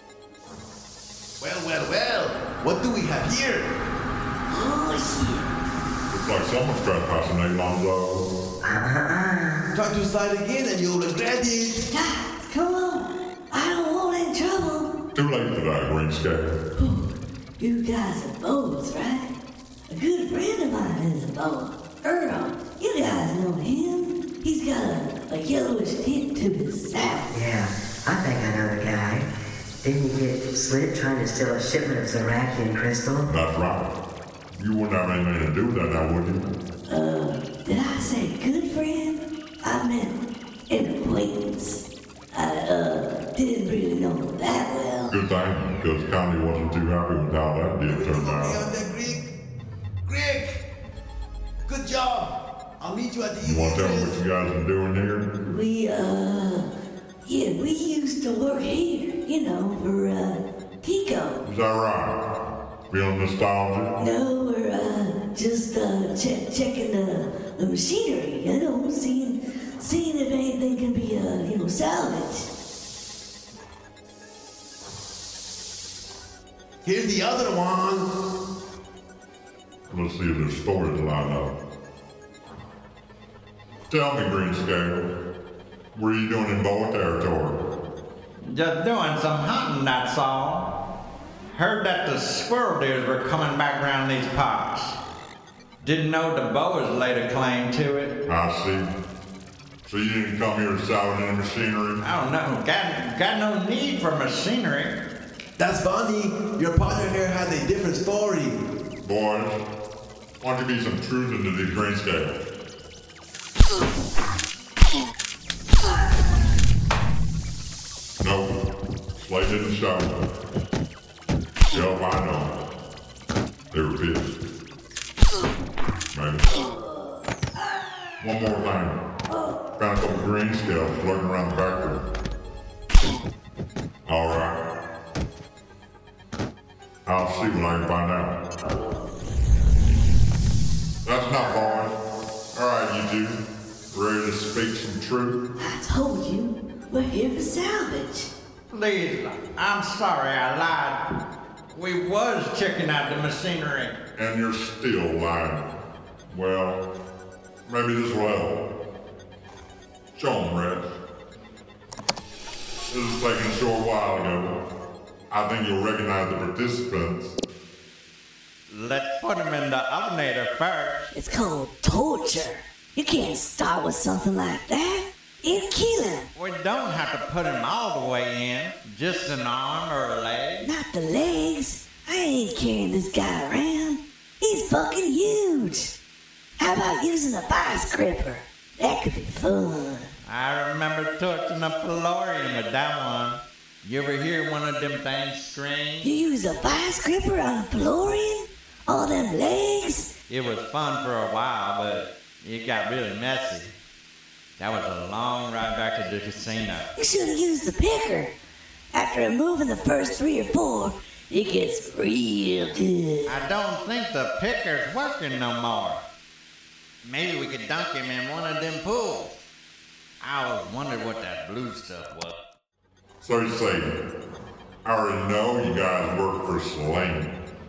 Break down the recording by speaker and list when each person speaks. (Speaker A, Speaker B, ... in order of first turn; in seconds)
Speaker A: 1.4-3.7, 9.7-11.8, 47.8-49.3, 50.1-50.6, 51.7-54.2, 76.8-78.1, 105.6-108.5
Speaker B: 4.5-5.5, 11.9-14.9, 16.8-19.3, 19.9-27.3, 36.9-45.2, 55.4-56.7, 57.2-61.4, 64.0-72.5, 126.6-127.9, 129.3-129.6, 145.6-148.3, 171.1-176.3, 180.6-186.0, 186.6-190.1, 196.0-200.1, 207.0-208.4, 208.9-213.3
Speaker C: 6.1-8.3, 15.2-16.6, 33.3-33.9, 34.6-36.5, 45.1-48.6, 53.4-55.3, 61.4-62.2, 62.9-63.9, 79.9-81.5, 83.9-85.1, 86.0-87.6, 98.3-98.9, 99.9-102.0, 109.0-109.6, 110.4-112.4, 118.2-118.6, 119.2-120.3, 121.7-122.6, 123.7-124.4, 126.1-126.5, 128.2-129.0, 129.8-132.1, 134.1-134.6, 137.1-138.4, 141.0-141.9, 142.5-143.4, 143.9-145.4, 154.2-155.7, 156.3-156.8, 157.7-158.6, 160.2-160.9, 162.9-164.6, 165.3-167.3, 223.2-223.9, 224.8-227.3
Speaker D: 8.6-9.6, 27.3-29.3, 29.8-33.3
Speaker E: 88.5-90.7, 91.5-95.0, 95.8-98.1, 102.0-105.0, 148.7-151.0, 151.7-154.0, 168.7-171.1, 176.3-180.7, 190.2-196.1, 200.3-203.7, 204.6-206.9, 213.3-216.1, 217.0-219.4, 220.2-222.4